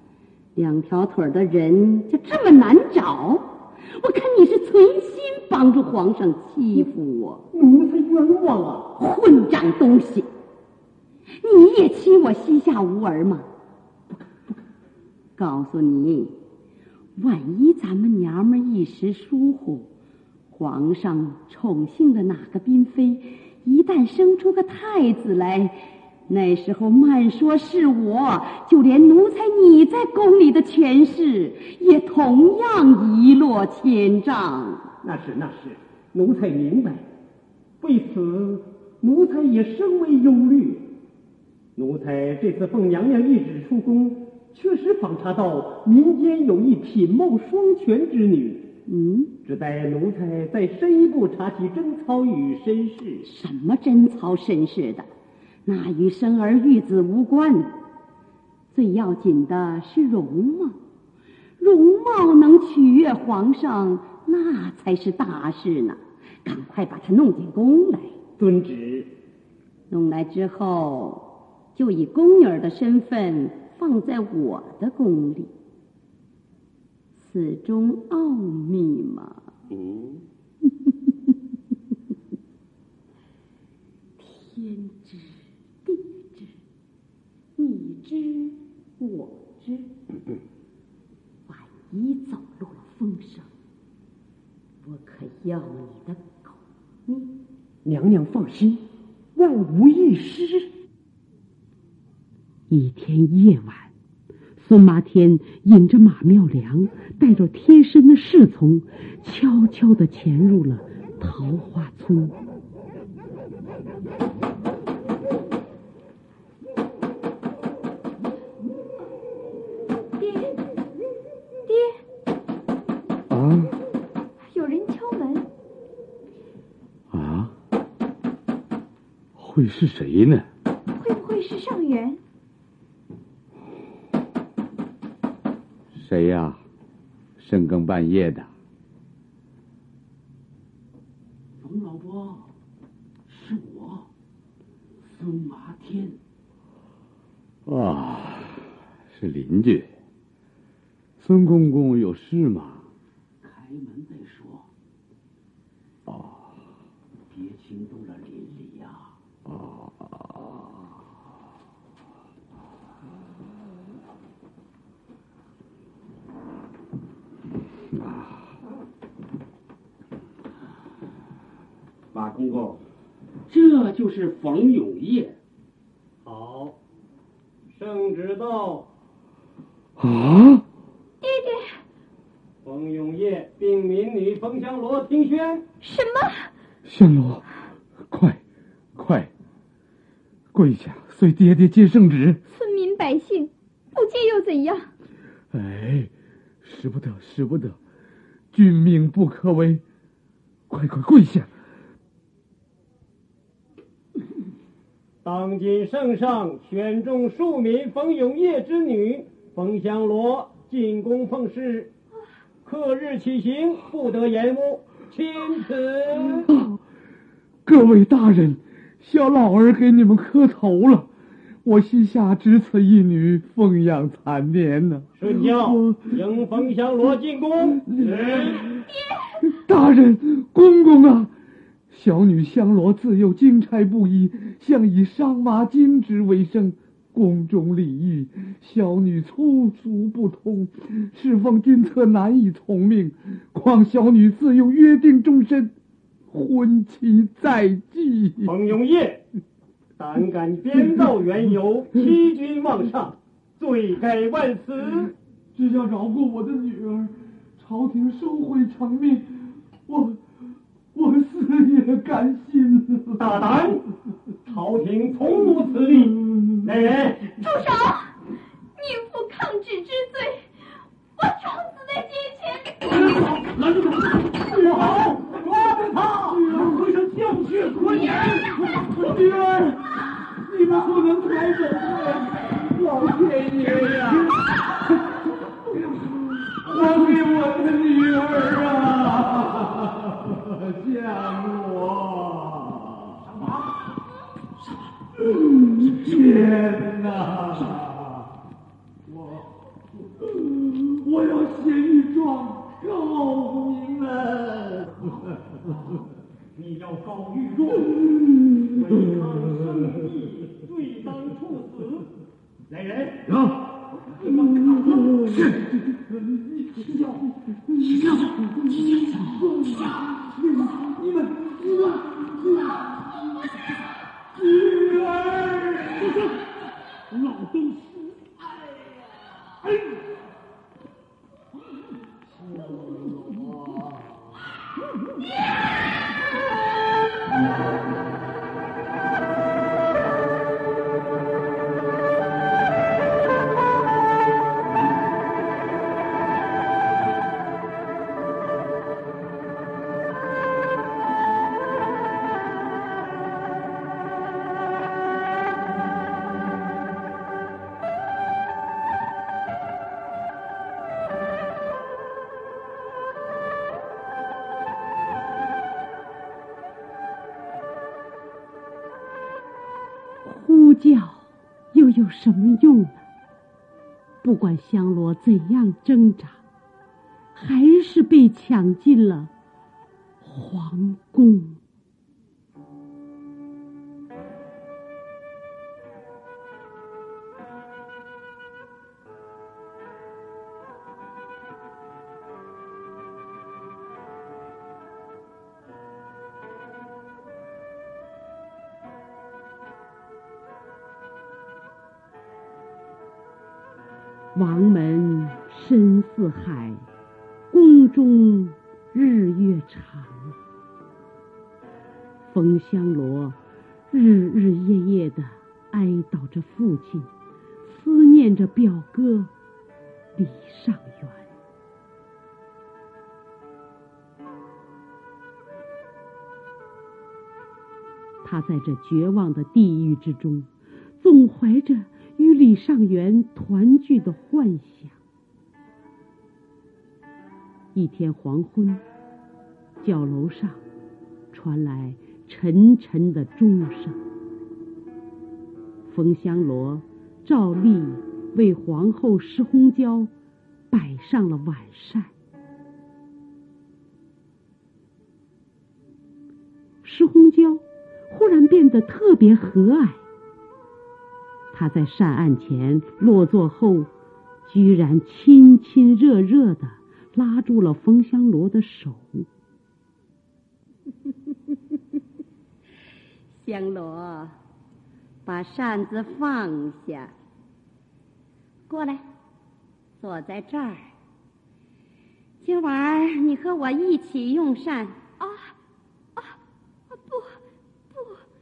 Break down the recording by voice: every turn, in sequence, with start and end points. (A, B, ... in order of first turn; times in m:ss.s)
0:00.6-0:07.4 A
0:07.5-0:08.9 B
0:09.0-0:10.3 A
0:11.4-0:13.5 A
0:15.4-0:16.3 A
0:17.2-0:19.9 A
0:20.5-0:34.9 A
0:35.0-0:37.0 B
0:37.8-0:40.9 B
0:41.8-0:48.7 B
0:48.9-0:49.3 A
0:49.4-0:53.3 B
0:53.2-0:55.1 A
0:55.6-0:57.7 A
0:58.7-1:00.8 A
1:01.6-1:08.2 A
1:08.4-1:09.1 B
1:09.9-1:15.5 A
1:17.2-1:19.5 A
1:24.2-1:26.5 C
1:27.6-1:28.4 A
1:27.6-1:28.5 C
1:29.0-1:29.8 A
1:31.5-1:33.4 A
1:31.9-1:33.4 C
1:34.8-1:36.4 A
1:34.9-1:35.2 C
1:37.1-1:37.3 A
1:37.8-1:38.8 B
1:39.4-1:40.7 B
1:42.7-1:43.9 C
1:44.6-1:52.4 C
2:00.2-2:00.6 D
2:01.6-2:02.0 D
2:03.3-2:03.7 E
2:04.4-2:05.5 D
2:07.1-2:07.5 E
2:09.4-2:10.5 E
2:10.9-2:12.2 D
2:15.9-2:16.6 E
2:17.4-2:18.5 E
2:21.6-2:22.5 F
2:23.3-2:24.1 F
2:25.0-2:26.2 F
2:27.7-2:29.9 E
2:31.2-2:32.9 E
2:33.4-2:34.7 F
2:36.1-2:36.4 E
2:37.3-2:39.1 F
2:39.5-2:40.5 E
2:48.0-2:48.4 E
2:52.1-2:52.8 F
2:53.5-2:55.4 F
2:56.2-2:56.8 B
2:57.7-2:58.9 B
3:00.0-3:00.4 E
3:00.2-3:00.6 G
3:01.2-3:01.8 D
3:02.6-3:05.6 B
3:05.8-3:06.5 D
3:12.5-3:14.9 D
3:15.5-3:16.1 E
3:16.6-3:17.7 E
3:18.5-3:19.8 E
3:20.7-3:21.4 G
3:25.2-3:31.9 B
3:32.6-3:36.5 B
3:37.6-3:41.1 G
3:41.6-3:46.1 G
3:45.2-3:48.6 B
3:47.9-3:48.6 G
3:49.4-3:51.3 G
3:51.9-4:05.7 G
4:06.3-4:08.5 G
4:08.4-4:09.2 B
4:10.0-4:15.1 B
4:15.5-4:20.2 G
4:20.9-4:23.3 G
4:23.2-4:23.8 B
4:24.4-4:27.3 B
4:27.4-4:28.1 D
4:28.8-4:30.5 D
4:31.2-4:33.3 D
4:34.4-4:35.2 B
4:36.2-4:36.8 G
4:36.8-4:38.1 F
4:38.7-4:44.3 G
4:46.5-4:51.9 G
4:50.9-4:51.1 E
4:51.9-4:52.2 E
4:55.9-4:57.7 G
5:00.7-5:04.9 G
5:06.5-5:07.9 B
5:08.7-5:12.1 B
5:12.7-5:13.3 B
5:14.2-5:15.3 B
5:16.0-5:17.2 G
5:17.9-5:18.3 F
5:19.3-5:22.8 G
5:24.4-5:26.1 G
5:27.3-5:27.7 F
5:32.5-5:33.8 G
6:10.2-6:13.0 C
6:14.2-6:16.4 C
6:17.3-6:19.3 C
6:20.2-6:21.6 C
6:44.3-6:46.8 C
6:47.5-6:50.4 C
6:52.3-6:53.4 C
6:53.9-6:57.1 C
6:57.6-6:59.3 C
7:00.2-7:01.3 C
7:08.2-7:10.5 C
7:11.0-7:15.0 C
7:17.7-7:18.8 C
7:19.8-7:20.6 C
7:21.3-7:24.0 C
7:25.9-7:30.1 C
7:30.7-7:32.1 C
7:36.8-7:40.0 C
7:41.5-7:43.9 C
7:44.4-7:49.3 C
7:53.3-7:54.4 A
7:55.2-7:57.1 A
7:58.7-7:59.0 A
8:00.0-8:00.9 A
8:02.4-8:05.0 A
8:05.2-8:05.5 D
8:06.9-8:07.4 D
8:07.9-8:08.2 D